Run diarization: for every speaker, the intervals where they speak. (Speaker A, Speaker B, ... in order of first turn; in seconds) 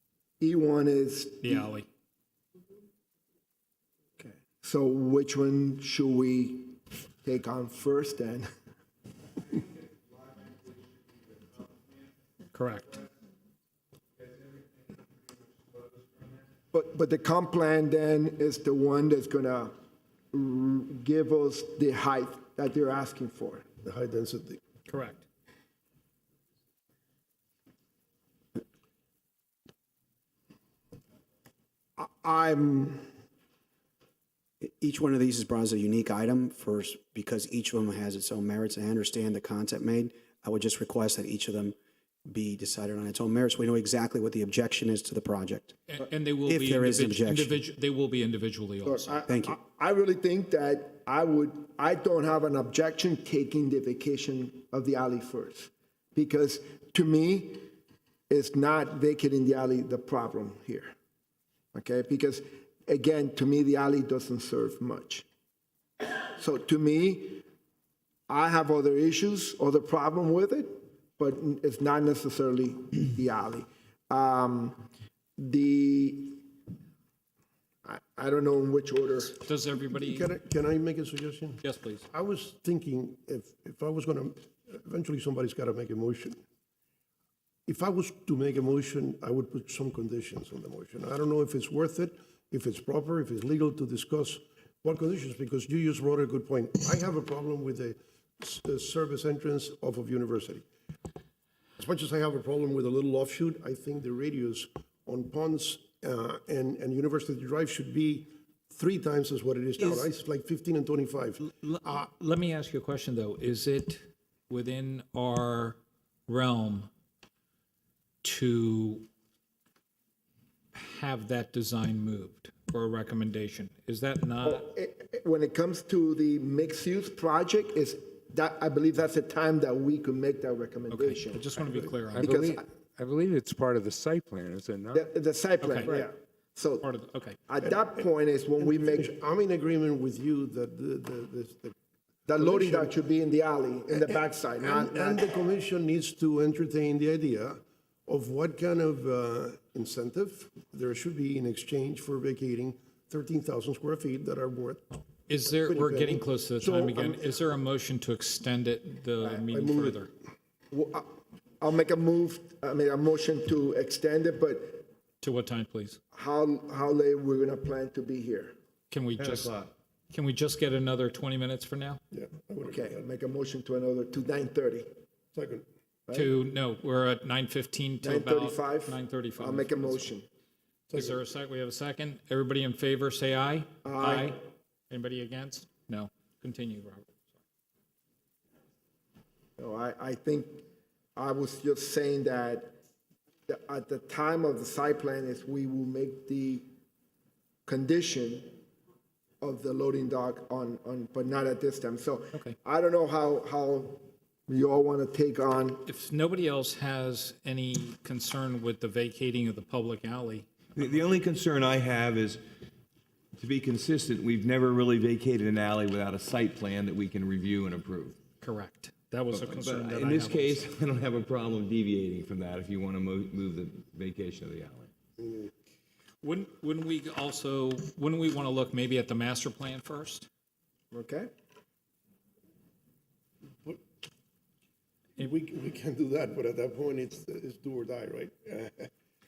Speaker A: 0.4-1.7, 4.2-8.5, 16.7-19.7, 20.3-23.7, 32.0-33.1, 48.9-57.7, 58.3-60.9, 61.7-65.3, 66.4-67.4, 68.3-74.8, 75.4-76.5, 77.8-79.4, 124.4-131.4, 132.2-132.7, 134.9-136.9, 137.5-139.1, 142.3-145.2, 160.7-164.9, 166.1-168.5, 172.7-174.9, 176.1-176.3, 178.0-180.3, 183.8-184.4, 189.6-190.6, 191.2-192.7, 193.5-196.6, 197.7-198.6, 199.4-205.9, 230.9-231.3
Speaker B: 1.4-1.9, 12.5-12.9, 24.9-25.2, 45.9-49.2, 79.4-80.3, 81.6-82.1, 111.4-116.9, 118.2-119.1, 120.7-124.6, 130.9-132.4, 135.6-136.0, 136.8-137.4, 155.3-160.1, 165.2-166.0, 168.9-169.5, 170.1-172.0, 176.1-180.1, 180.9-187.2, 205.9-210.5, 218.4-220.7, 226.2-230.3
Speaker C: 23.8-24.6, 79.8-86.4, 87.7-100.6, 101.8-112.0, 138.6-141.7, 142.4-142.9, 143.9-157.3, 159.5-160.0, 172.1-173.0, 175.3-175.7, 180.9-181.2, 225.2-225.5, 235.2-238.9
Speaker D: 34.6-45.8, 46.5-47.6, 49.3-49.5
Speaker E: 132.1-135.0
Speaker F: 169.2-169.7, 210.8-212.4, 213.4-218.2, 219.3-224.9